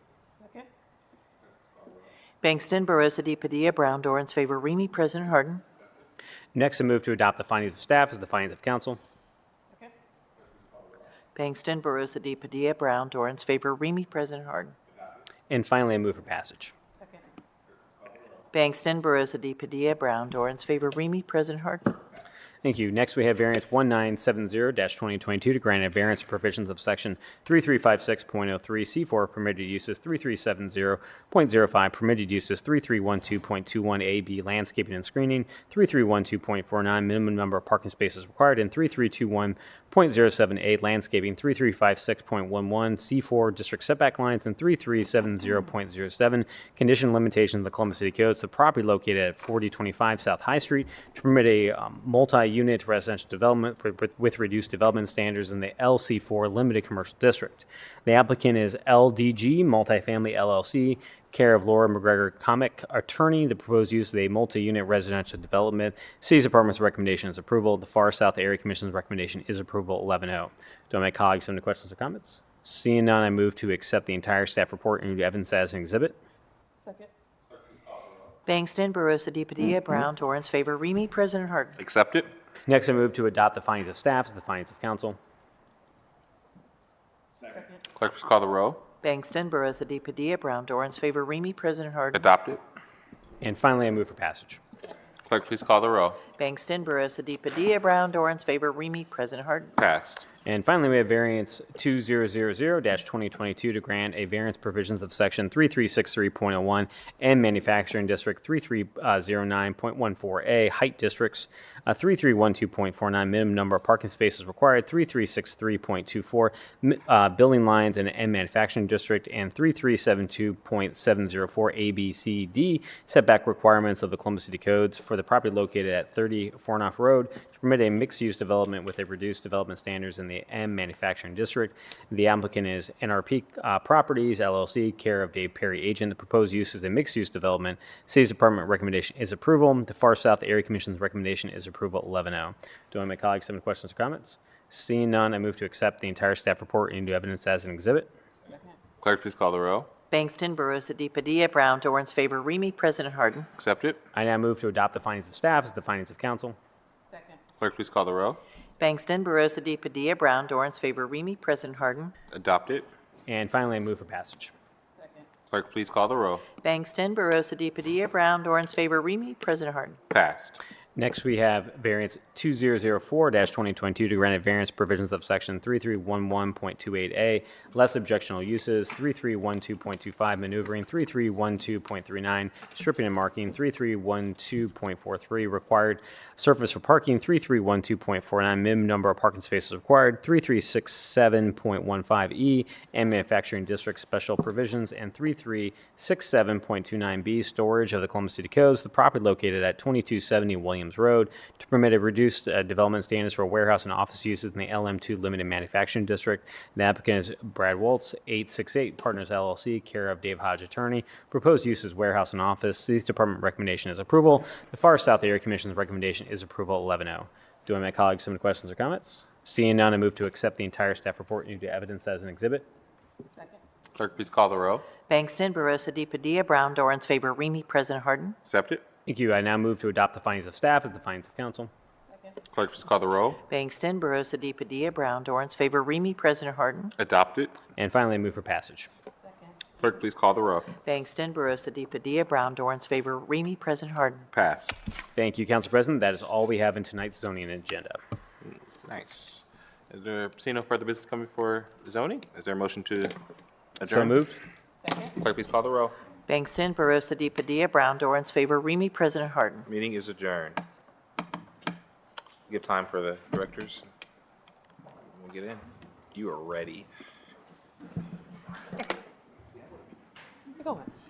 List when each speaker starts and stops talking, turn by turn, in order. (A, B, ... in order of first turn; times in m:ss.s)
0:00.4-0:00.6 A
0:02.4-0:05.6 B
0:06.5-0:09.0 C
0:11.4-0:14.7 B
0:15.5-0:16.7 C
0:18.5-0:22.0 B
0:22.6-1:16.2 C
1:16.8-1:17.1 A
1:18.5-1:21.8 B
1:21.8-1:22.3 D
1:22.7-1:25.2 C
1:27.9-1:28.8 D
1:29.0-1:32.3 B
1:32.1-1:32.6 D
1:33.4-1:34.6 C
1:35.2-1:36.2 D
1:36.4-1:39.7 B
1:39.8-1:40.2 D
1:40.4-2:28.1 C
2:29.0-2:29.9 D
2:30.1-2:33.5 B
2:33.6-2:34.0 D
2:34.1-2:36.6 C
2:37.1-2:37.4 A
2:37.6-2:38.4 D
2:38.8-2:42.1 B
2:42.3-2:42.9 D
2:43.3-2:44.5 C
2:45.0-2:45.3 A
2:45.5-2:46.4 D
2:46.6-2:50.0 B
2:50.1-2:50.6 D
2:51.0-3:42.7 C
3:44.0-3:44.9 D
3:45.1-3:48.4 B
3:48.4-3:48.8 D
3:49.0-3:51.7 C
3:52.5-3:53.4 D
3:53.5-3:56.9 B
3:57.0-3:57.6 D
3:57.8-3:58.9 C
3:59.2-3:59.5 A
3:59.8-4:00.7 D
4:00.8-4:04.2 B
4:04.3-4:04.7 D
4:05.1-4:08.0 C
4:08.8-4:13.1 D
4:13.8-4:14.1 D
4:13.8-4:14.4 C
4:14.8-4:15.1 A
4:15.1-4:16.0 D
4:16.3-4:19.7 B
4:19.7-4:20.6 D
4:22.5-4:23.9 D
4:25.1-4:26.9 D
4:30.5-4:30.9 A